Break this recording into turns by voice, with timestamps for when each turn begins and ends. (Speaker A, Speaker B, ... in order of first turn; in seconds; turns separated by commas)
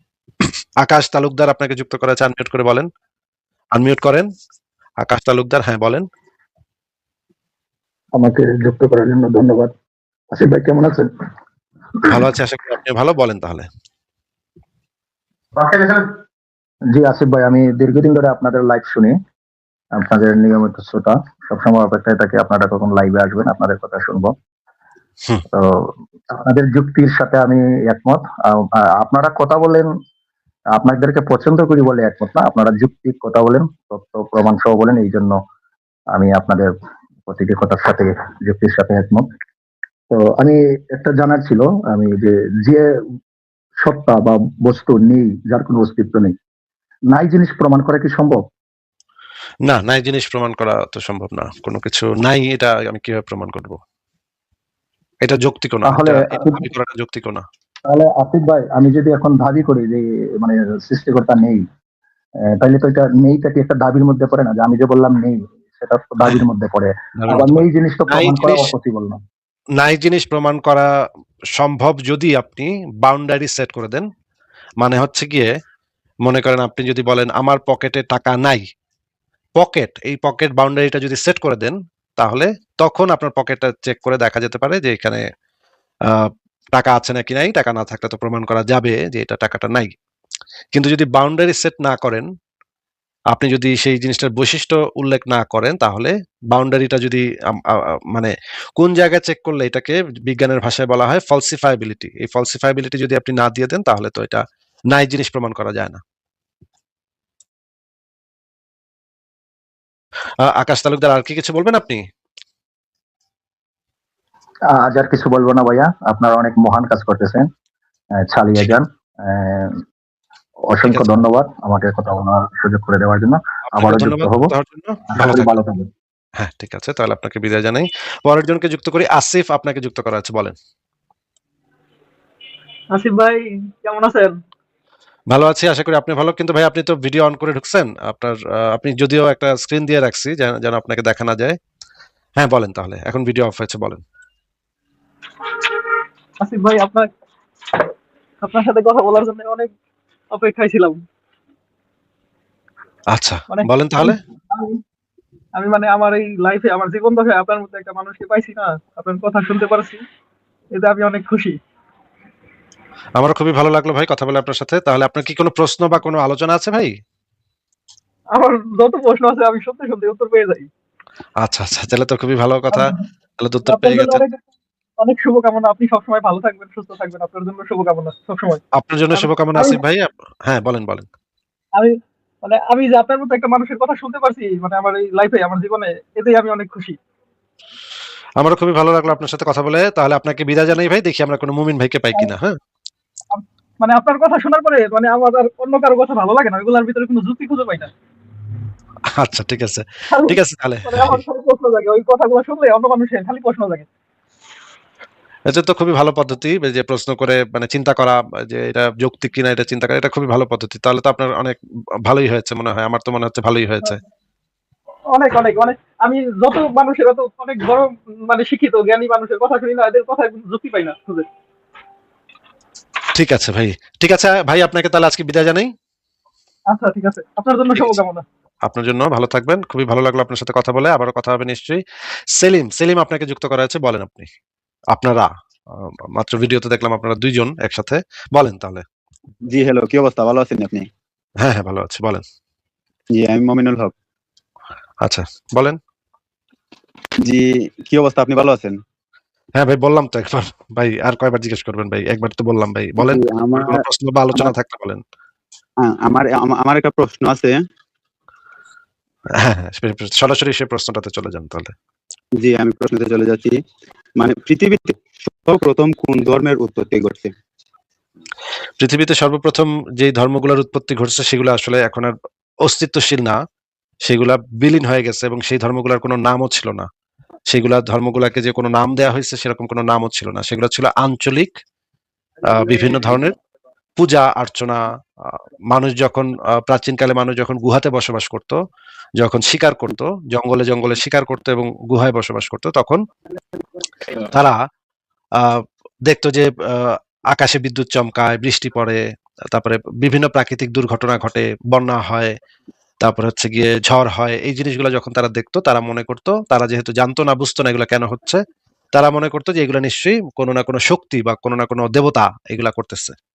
Speaker A: 0.8-2.9, Speaker A: 3.7-4.3, Speaker A: 5.0-6.0, Speaker B: 8.2-9.7, Speaker B: 10.3-11.1, Speaker A: 12.1-13.7, Speaker B: 15.6-15.9, Speaker B: 16.9-19.2, Speaker B: 20.0-24.3, Speaker B: 25.5-29.9, Speaker B: 30.7-35.4, Speaker B: 36.1-36.7, Speaker B: 37.3-39.3, Speaker B: 40.1-42.8, Speaker B: 43.8-46.3, Speaker B: 47.1-48.4, Speaker A: 49.7-53.8, Speaker A: 55.2-57.4, Speaker B: 55.8-56.7, Speaker B: 57.8-61.6, Speaker B: 62.6-69.2, Speaker A: 67.2-68.7, Speaker A: 69.8-70.9, Speaker A: 71.6-74.1, Speaker A: 74.8-75.5, Speaker A: 76.2-78.7, Speaker A: 79.6-85.2, Speaker A: 86.1-89.9, Speaker A: 90.7-92.3, Speaker A: 93.3-106.0, Speaker A: 110.4-112.0, Speaker B: 114.7-117.5, Speaker B: 118.2-119.8, Speaker B: 120.7-124.5, Speaker A: 120.8-121.2, Speaker A: 123.8-125.6, Speaker B: 125.1-125.9, Speaker A: 126.4-130.6, Speaker C: 132.9-134.4, Speaker A: 135.3-141.6, Speaker A: 142.4-144.0, Speaker C: 146.4-147.1, Speaker C: 148.4-149.7, Speaker C: 150.3-151.0, Speaker A: 153.1-154.2, Speaker C: 153.5-154.8, Speaker C: 155.6-160.0, Speaker C: 160.7-161.6, Speaker A: 163.2-166.9, Speaker C: 168.3-170.7, Speaker A: 171.4-174.2, Speaker C: 172.7-173.1, Speaker C: 173.7-174.4, Speaker C: 175.0-178.6, Speaker A: 178.7-181.1, Speaker C: 179.1-179.8, Speaker C: 181.8-187.0, Speaker A: 188.4-192.5, Speaker C: 193.3-197.9, Speaker A: 199.1-201.2, Speaker C: 200.1-203.9, Speaker A: 205.5-214.0, Speaker C: 215.1-221.3, Speaker A: 223.1-225.7, Speaker C: 226.7-228.2, Speaker A: 228.7-231.8, Speaker A: 232.4-234.3, Speaker A: 234.9-238.8, Speaker D: 239.5-240.9, Speaker A: 241.4-242.2, Speaker D: 243.1-243.9, Speaker A: 245.0-245.8, Speaker D: 247.2-248.8, Speaker A: 249.6-255.0, Speaker D: 253.0-253.8, Speaker D: 255.8-257.6, Speaker A: 259.4-261.7, Speaker D: 262.4-263.6, Speaker D: 264.2-267.3, Speaker A: 268.8-272.1, Speaker A: 272.6-273.4, Speaker A: 274.1-276.9, Speaker A: 277.5-281.6, Speaker A: 282.5-283.3, Speaker A: 284.0-284.9, Speaker A: 285.7-288.6, Speaker A: 289.2-293.0, Speaker A: 294.2-294.6, Speaker A: 295.4-302.4, Speaker A: 303.0-308.4, Speaker A: 308.9-313.1